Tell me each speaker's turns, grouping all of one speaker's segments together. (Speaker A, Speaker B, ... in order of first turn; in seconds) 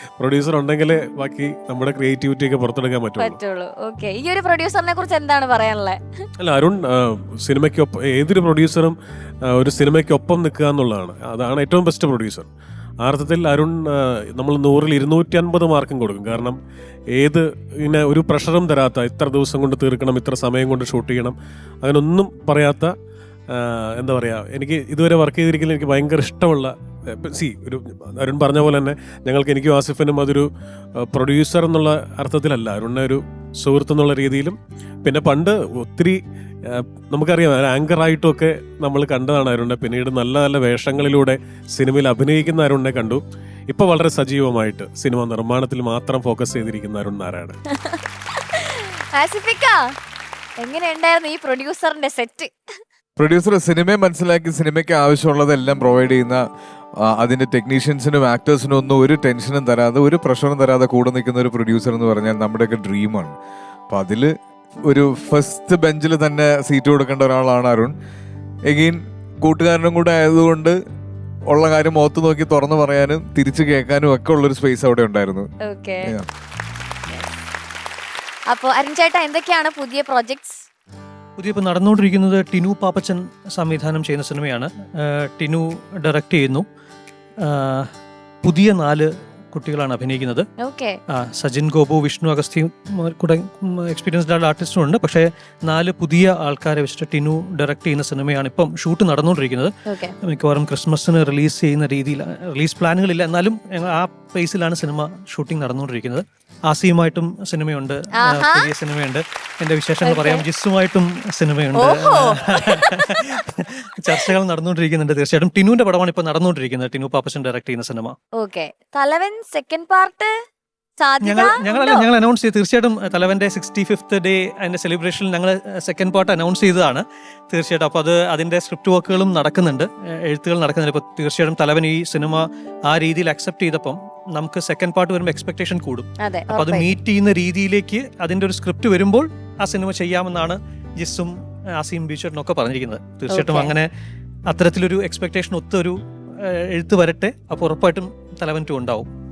Speaker A: 0.2-3.4, 6.4-9.0, 9.5-12.5, 13.0-16.6, 17.1-22.9, 23.5-30.5, 31.1-47.6
Speaker B: 3.2-6.0, 47.7-49.8, 50.6-52.5, 75.7-76.1, 78.5-80.6, 90.6-91.0, 99.9-100.1, 108.2-108.7, 110.0-110.4, 111.8-113.1, 118.4-120.3, 121.0-122.1, 136.2-136.9, 143.3-143.7
Speaker C: 53.2-56.4, 57.1-63.3, 63.9-64.3, 64.9-67.9, 68.7-70.8, 71.5-75.5
Speaker D: 81.4-86.7, 87.4-87.9, 88.4-90.5, 91.1-99.7, 100.2-118.2, 121.2-143.9, 144.5-149.1